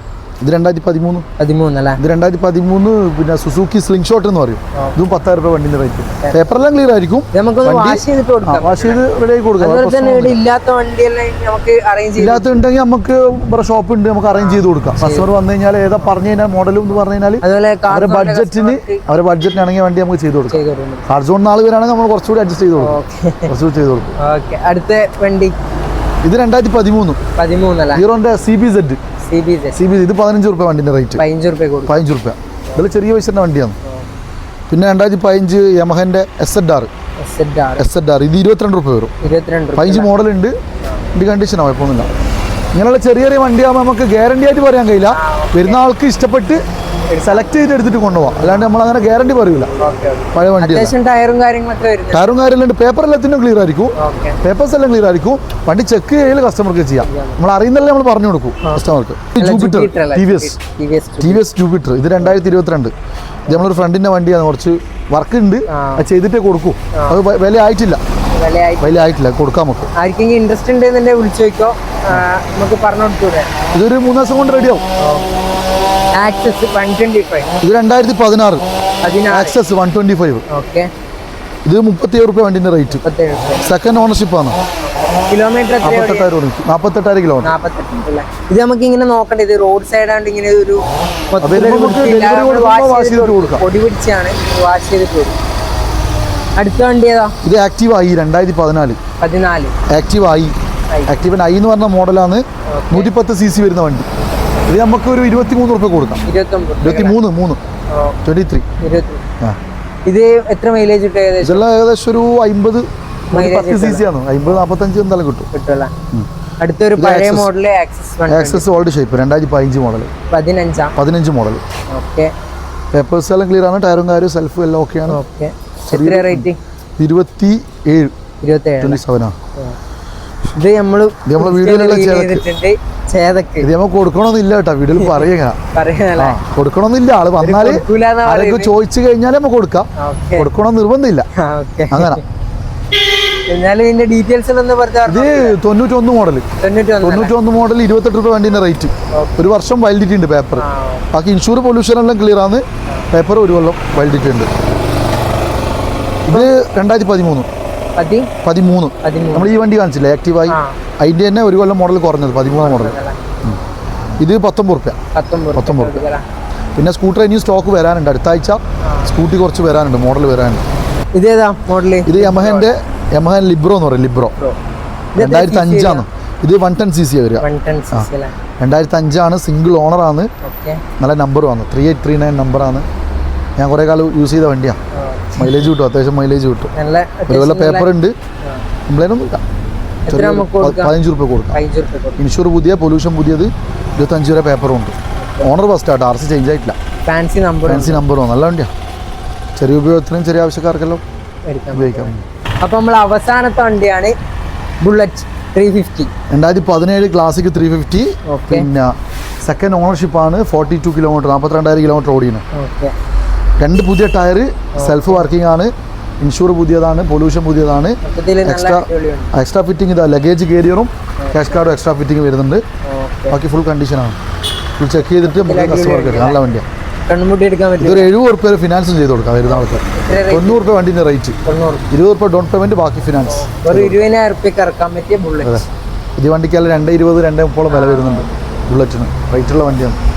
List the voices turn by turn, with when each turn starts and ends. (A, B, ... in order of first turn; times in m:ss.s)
0:00.4-0:01.2 A
0:01.4-0:02.0 B
0:02.0-0:10.4 A
0:07.3-0:09.0 B
0:09.6-0:12.6 B
0:12.2-0:24.2 A
0:14.3-0:15.3 B
0:17.4-0:19.0 B
0:20.5-0:21.0 B
0:22.8-0:23.5 B
0:24.2-0:25.5 B
0:26.2-0:27.2 A
0:27.4-0:28.0 B
0:27.9-0:29.0 A
0:29.2-0:29.8 B
0:29.8-0:31.2 A
0:31.2-0:31.9 B
0:31.9-0:33.8 A
0:34.7-0:36.9 A
0:37.2-0:37.8 B
0:37.8-0:39.1 A
0:39.2-0:40.1 B
0:39.8-0:40.5 A
0:41.1-0:42.1 A
0:42.7-0:46.6 A
0:45.1-0:45.8 B
0:47.1-0:47.5 B
0:47.2-0:49.7 A
0:49.8-0:52.3 B
0:50.3-0:50.9 A
0:52.1-1:00.6 A
0:54.0-0:54.4 B
0:57.0-0:57.4 B
0:59.4-1:01.4 B
1:01.2-1:02.9 A
1:03.5-1:08.0 A
1:05.7-1:06.0 B
1:06.9-1:07.2 B
1:08.3-1:09.1 B
1:08.8-1:09.9 A
1:09.9-1:13.5 B
1:13.7-1:14.8 A
1:15.0-1:15.3 B
1:16.1-1:17.5 B
1:17.6-1:18.6 A
1:19.0-1:19.6 B
1:19.3-1:20.4 A
1:20.5-1:20.9 B
1:21.6-1:23.0 A
1:23.0-1:23.7 B
1:23.6-1:24.6 A
1:25.3-1:26.2 B
1:25.8-1:27.5 A
1:27.4-1:35.4 B
1:31.4-1:33.6 A
1:36.6-1:37.3 B
1:37.4-1:39.0 A
1:39.2-1:39.7 B
1:39.9-1:40.5 A
1:41.1-1:44.1 A
1:42.7-1:43.1 B
1:44.7-1:46.2 A
1:46.2-1:47.2 B
1:46.8-1:47.6 A
1:47.9-1:48.2 B
1:48.2-1:48.6 A
1:48.8-1:49.2 B
1:50.1-1:51.6 B
1:51.4-1:55.5 A
1:53.3-1:54.6 B
1:55.5-1:55.9 B
1:56.6-1:58.6 B
1:57.0-1:57.5 A
1:58.3-2:00.1 A
2:00.3-2:00.9 B
2:01.0-2:01.6 A
2:01.9-2:02.3 B
2:02.9-2:05.2 A
2:05.1-2:06.6 B
2:05.9-2:08.1 A
2:08.4-2:09.0 B
2:08.8-2:09.3 A
2:10.5-2:13.7 B
2:11.2-2:12.4 A
2:13.6-2:15.6 A
2:15.0-2:16.4 B
2:16.2-2:21.3 A
2:17.4-2:18.7 B
2:20.0-2:20.5 B
2:21.3-2:22.2 B
2:21.9-2:22.2 A
2:23.5-2:25.6 B
2:25.0-2:26.4 A
2:26.6-2:27.3 B
2:27.0-2:34.5 A
2:29.1-2:29.4 B
2:30.6-2:31.1 B
2:36.3-2:37.5 A
2:38.0-2:38.3 B
2:38.4-2:43.6 A
2:39.0-2:39.6 B
2:40.5-2:40.8 B
2:42.5-2:43.2 B
2:44.2-2:45.0 A
2:45.1-2:46.2 B
2:45.5-2:46.0 A
2:46.8-2:50.6 A
2:48.8-2:49.1 B
2:51.1-2:52.7 B
2:52.0-2:54.3 A
2:55.1-2:56.1 B
2:55.2-2:58.1 A
2:57.4-2:58.3 B
2:58.6-3:00.3 A
3:00.4-3:00.8 B
3:01.0-3:02.8 A
3:03.6-3:04.8 A
3:04.9-3:05.7 B
3:05.4-3:06.7 A
3:06.7-3:07.9 B
3:07.3-3:08.1 A
3:08.9-3:09.4 A
3:10.1-3:10.9 B
3:10.1-3:11.6 A
3:11.5-3:12.2 B
3:12.2-3:16.8 A
3:15.2-3:15.5 B
3:17.0-3:18.0 B
3:17.6-3:18.7 A
3:19.6-3:21.0 A
3:21.4-3:24.1 B
3:21.7-3:22.2 A
3:24.8-3:26.1 B
3:26.3-3:28.9 A
3:28.3-3:28.6 B
3:29.4-3:32.4 A
3:32.5-3:32.9 B
3:33.6-3:42.6 A
3:34.7-3:35.2 B
3:38.0-3:39.3 B
3:42.8-3:43.4 B
3:43.3-3:44.2 A
3:44.8-3:46.6 A
3:45.2-3:46.4 B
3:47.1-3:48.1 B
3:47.8-3:51.4 A
3:49.4-3:50.7 B
3:51.4-3:51.9 B
3:51.9-3:54.0 A
3:53.3-3:55.6 B
3:56.2-4:00.0 A
3:57.7-3:58.3 B